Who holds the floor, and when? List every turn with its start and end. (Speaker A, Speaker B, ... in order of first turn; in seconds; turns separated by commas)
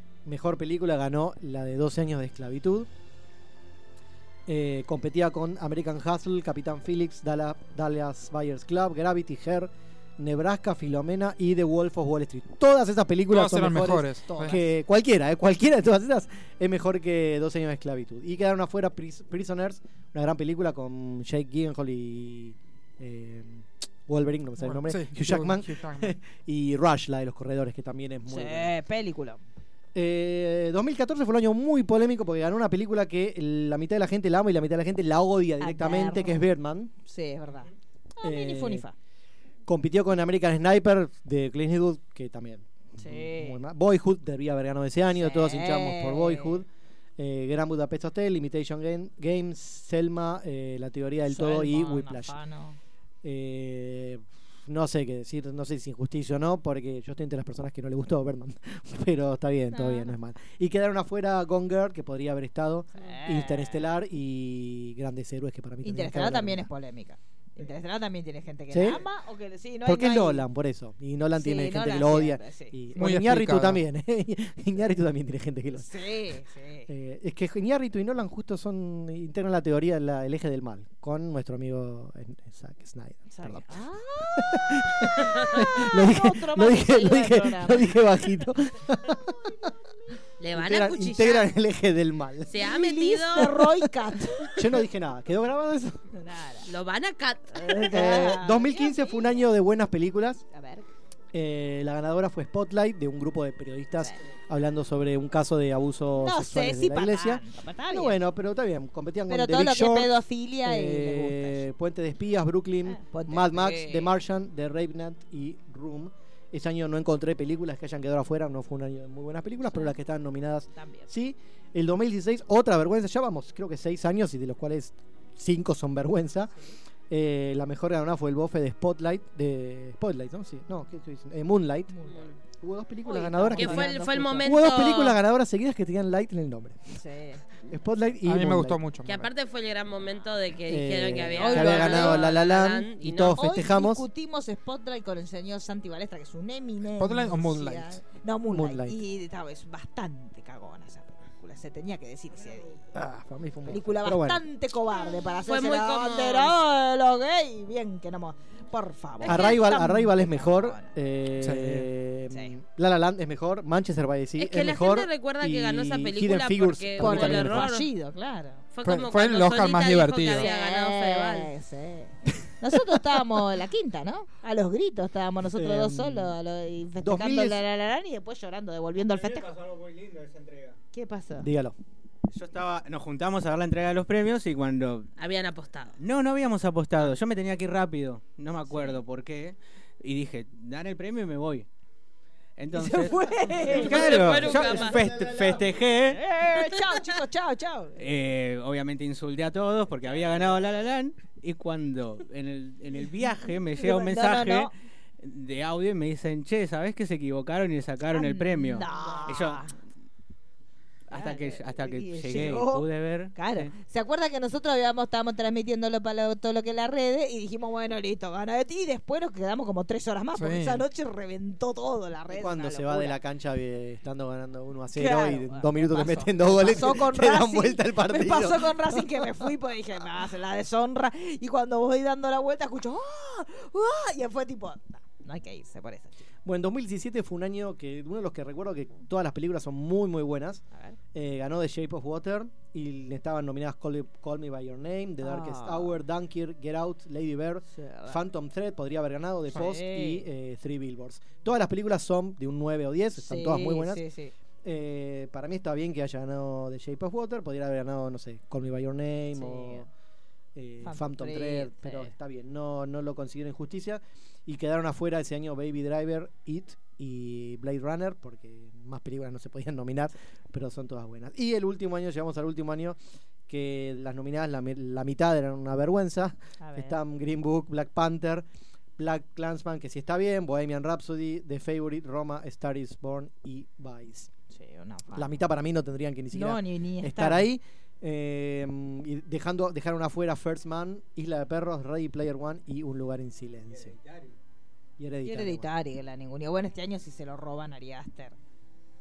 Speaker A: 0.2-2.9, Speaker A: 4.5-28.7, Speaker B: 13.3-14.6, Speaker B: 24.6-26.1, Speaker C: 28.3-29.4, Speaker A: 29.9-36.9, Speaker C: 35.6-36.4, Speaker C: 37.0-38.9, Speaker A: 38.2-38.9, Speaker A: 39.7-46.7, Speaker C: 43.0-43.6, Speaker C: 45.1-46.6, Speaker A: 47.2-52.4, Speaker C: 51.3-52.8, Speaker A: 53.2-66.7, Speaker C: 59.7-60.1, Speaker C: 62.9-63.9, Speaker C: 65.8-70.5, Speaker A: 68.7-69.0, Speaker A: 69.8-76.0, Speaker C: 71.3-72.8, Speaker B: 72.9-73.8, Speaker C: 75.7-76.9, Speaker A: 76.9-83.8, Speaker C: 83.3-88.0, Speaker A: 84.3-89.7, Speaker C: 89.0-89.7, Speaker D: 90.4-91.5, Speaker A: 90.5-92.7, Speaker D: 92.5-93.6, Speaker C: 92.6-94.7, Speaker A: 93.4-96.0, Speaker C: 96.1-96.7, Speaker D: 96.7-98.0, Speaker C: 97.5-99.5, Speaker A: 97.9-100.4, Speaker C: 100.5-100.9, Speaker A: 101.3-126.5, Speaker C: 106.2-108.2, Speaker C: 109.3-111.7, Speaker C: 112.8-114.2, Speaker C: 120.7-121.1, Speaker A: 127.1-131.9, Speaker C: 131.9-132.2, Speaker D: 132.1-132.3, Speaker A: 132.5-136.9, Speaker C: 133.1-134.5, Speaker D: 133.5-135.2, Speaker C: 136.9-137.4, Speaker A: 137.7-138.8, Speaker B: 138.2-139.3, Speaker D: 139.0-143.4, Speaker A: 140.7-144.1, Speaker C: 141.3-142.3, Speaker C: 143.4-152.9, Speaker B: 146.9-148.0, Speaker A: 148.5-149.0, Speaker A: 152.9-154.4, Speaker C: 153.7-160.9, Speaker D: 155.3-156.6, Speaker D: 159.2-159.6, Speaker A: 159.2-167.7, Speaker B: 161.4-161.9, Speaker D: 164.4-167.9, Speaker C: 167.0-168.6, Speaker D: 168.7-171.5, Speaker B: 168.8-170.5, Speaker C: 170.3-179.6, Speaker A: 175.5-176.3, Speaker A: 177.0-177.6, Speaker E: 179.1-180.8, Speaker C: 180.9-181.5, Speaker A: 181.4-181.8, Speaker E: 182.3-185.1, Speaker D: 185.2-186.0, Speaker E: 186.0-191.7, Speaker E: 192.6-196.2, Speaker C: 192.7-194.8, Speaker D: 193.9-195.1, Speaker C: 196.1-198.0, Speaker E: 198.0-209.7, Speaker C: 203.0-204.7, Speaker C: 208.1-209.7, Speaker E: 211.1-213.7, Speaker C: 211.1-223.2, Speaker B: 220.3-220.8, Speaker A: 222.3-229.4, Speaker C: 224.9-236.3, Speaker A: 236.4-240.6, Speaker C: 240.7-241.0, Speaker A: 241.1-254.0, Speaker C: 245.2-245.9, Speaker C: 247.7-248.2, Speaker C: 249.5-250.3, Speaker C: 253.2-254.3, Speaker A: 254.6-259.9, Speaker C: 259.3-259.9, Speaker A: 260.6-278.4, Speaker C: 260.8-262.1, Speaker C: 276.6-277.0, Speaker A: 279.0-284.3, Speaker C: 284.5-285.4, Speaker A: 285.1-293.9, Speaker C: 286.3-287.5, Speaker E: 293.7-294.3, Speaker A: 295.0-295.7, Speaker C: 295.2-298.4